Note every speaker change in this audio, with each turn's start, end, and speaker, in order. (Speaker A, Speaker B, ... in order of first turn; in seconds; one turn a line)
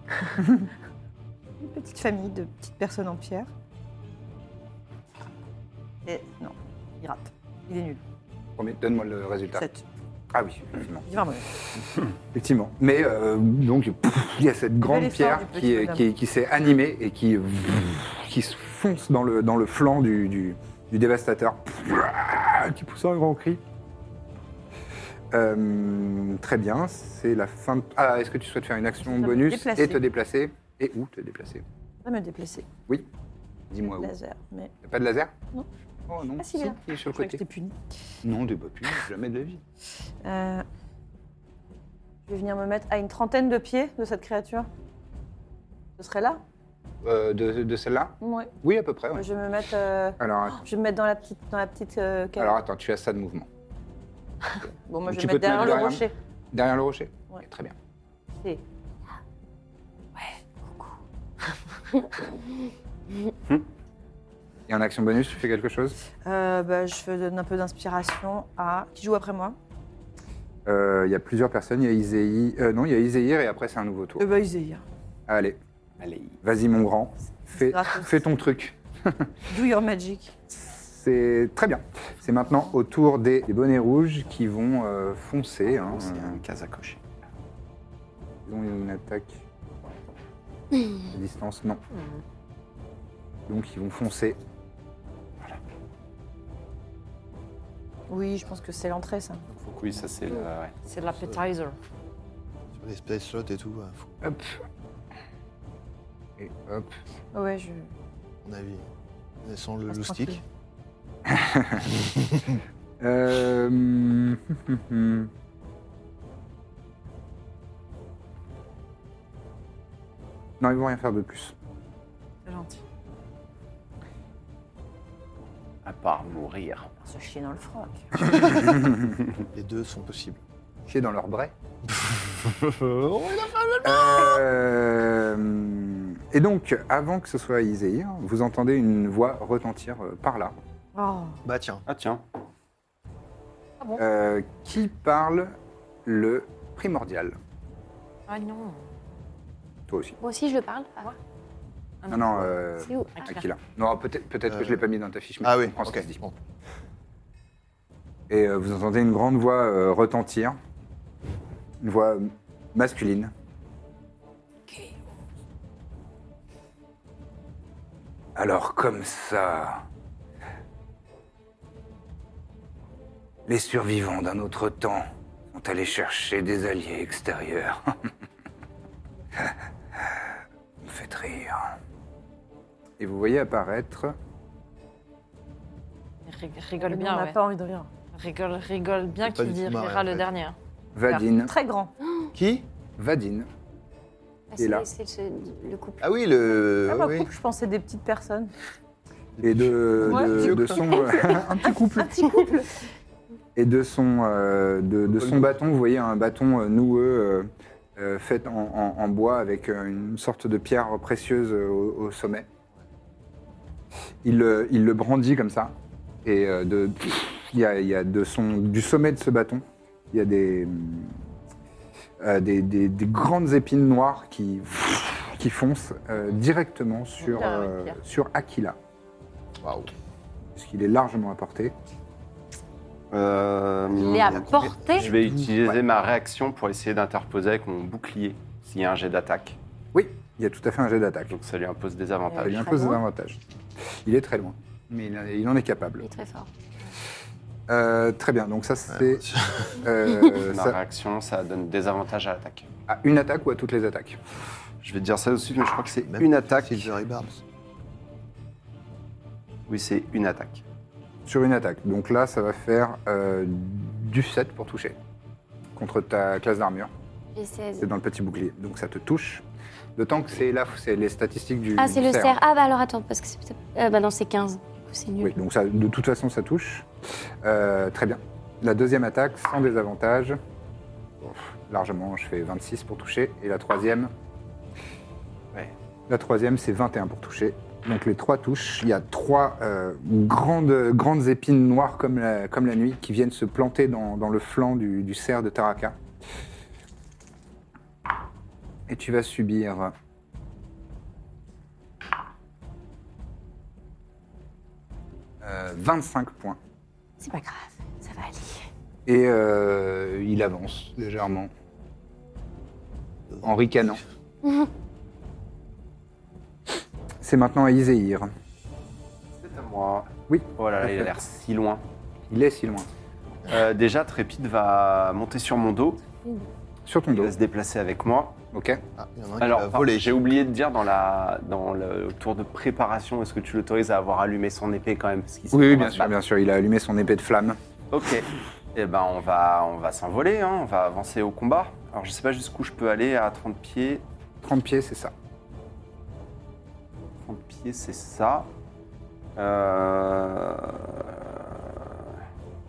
Speaker A: 1.6-3.5
Speaker A: 6.1-8.0
Speaker B: 8.6-9.7
Speaker A: 9.5-9.8
Speaker B: 10.3-11.1
Speaker A: 11.1-11.5
Speaker B: 12.3-23.6
Speaker A: 14.8-16.1
Speaker B: 25.3-31.6
Speaker A: 29.1-30.0
Speaker A: 32.0-32.7
Speaker B: 33.7-34.1
Speaker A: 34.0-34.7
Speaker B: 34.8-35.3
Speaker B: 36.1-37.4
Speaker A: 36.4-37.8
Speaker B: 38.2-39.6
Speaker A: 40.2-40.6
Speaker A: 42.3-44.7
Speaker A: 46.0-46.4
Speaker B: 47.0-49.3
Speaker A: 48.2-48.5
Speaker A: 49.1-52.6
Speaker B: 50.2-50.6
Speaker B: 52.4-53.5
Speaker A: 54.9-56.1
Speaker B: 55.1-57.8
Speaker B: 64.7-66.0
Speaker A: 66.2-69.6
Speaker B: 70.7-74.3
Speaker A: 74.2-74.8
Speaker B: 75.3-75.6
Speaker C: 76.0-76.4
Speaker B: 76.4-79.3
Speaker A: 77.5-78.2
Speaker A: 79.5-80.3
Speaker B: 80.5-86.4
Speaker C: 85.6-87.0
Speaker B: 88.5-89.4
Speaker B: 91.1-91.8
Speaker D: 91.9-92.2
Speaker B: 93.5-94.4
Speaker A: 98.1-99.5
Speaker E: 99.5-100.1
Speaker C: 99.8-100.8
Speaker D: 100.9-101.8
Speaker E: 101.0-101.4
Speaker E: 102.8-104.1
Speaker B: 104.2-104.6
Speaker B: 106.4-107.0
Speaker A: 107.3-107.9
Speaker E: 108.4-108.9
Speaker E: 109.4-110.4
Speaker A: 109.9-110.4
Speaker B: 111.3-111.9
Speaker E: 112.2-112.5
Speaker B: 113.0-115.3
Speaker B: 120.6-121.5
Speaker D: 122.5-122.8
Speaker C: 125.8-126.9
Speaker A: 127.0-128.5
Speaker E: 129.5-130.4
Speaker B: 130.9-131.5
Speaker E: 131.8-134.4
Speaker B: 133.8-140.6
Speaker A: 140.9-141.4
Speaker E: 141.4-141.8
Speaker C: 141.9-142.2
Speaker B: 144.0-147.4
Speaker D: 148.3-148.9
Speaker B: 149.9-150.2
Speaker F: 150.2-151.1
Speaker D: 152.0-152.4
Speaker B: 152.1-156.2
Speaker F: 152.8-153.3
Speaker D: 153.2-153.4
Speaker E: 154.5-154.8
Speaker E: 155.4-156.3
Speaker B: 158.3-160.6
Speaker B: 161.8-163.3
Speaker B: 168.4-169.8
Speaker B: 173.5-178.1
Speaker B: 179.4-180.2
Speaker B: 180.8-181.8
Speaker B: 183.0-184.2
Speaker D: 186.2-187.4
Speaker A: 186.8-187.9
Speaker D: 188.1-190.6
Speaker E: 189.2-190.3
Speaker B: 190.9-191.5
Speaker A: 191.4-191.9
Speaker E: 192.3-192.7
Speaker B: 193.0-193.5
Speaker F: 194.5-196.2
Speaker B: 194.6-194.9
Speaker E: 196.0-197.3
Speaker A: 196.9-198.5
Speaker E: 199.4-201.1
Speaker B: 199.4-202.3
Speaker A: 200.0-202.7
Speaker B: 203.6-212.5
Speaker B: 214.2-221.2
Speaker B: 222.2-228.8
Speaker D: 227.3-227.8
Speaker E: 229.6-229.9
Speaker B: 230.6-231.7
Speaker C: 233.1-239.6
Speaker D: 234.0-235.1
Speaker E: 234.0-235.7
Speaker B: 239.9-241.3
Speaker C: 241.3-242.9
Speaker D: 242.3-243.0
Speaker B: 242.4-243.4
Speaker B: 244.0-246.1
Speaker F: 246.0-246.5
Speaker B: 247.7-250.8
Speaker E: 248.9-249.8
Speaker C: 250.4-252.7
Speaker B: 252.9-254.2
Speaker C: 254.8-256.9
Speaker E: 256.1-257.4
Speaker C: 259.7-260.6
Speaker B: 261.3-265.0
Speaker B: 265.8-266.9
Speaker F: 267.4-267.9
Speaker B: 267.8-269.4
Speaker B: 270.0-272.4
Speaker F: 271.8-275.3
Speaker B: 275.2-276.9
Speaker B: 277.4-280.4
Speaker B: 281.2-284.1
Speaker B: 286.1-296.0
Speaker B: 298.9-299.9
Speaker B: 305.4-306.6
Speaker F: 307.2-307.5
Speaker F: 308.1-308.6
Speaker B: 309.1-311.5
Speaker B: 313.4-314.0
Speaker B: 317.2-318.3
Speaker C: 319.4-321.8
Speaker B: 320.3-321.1
Speaker B: 322.3-322.9
Speaker C: 323.5-326.1
Speaker B: 326.9-327.3
Speaker C: 327.1-328.4
Speaker B: 328.5-328.8
Speaker E: 329.0-330.2
Speaker C: 329.4-336.1
Speaker B: 335.5-337.6
Speaker C: 337.9-344.0
Speaker B: 344.4-345.1
Speaker C: 347.2-348.5
Speaker C: 349.4-352.1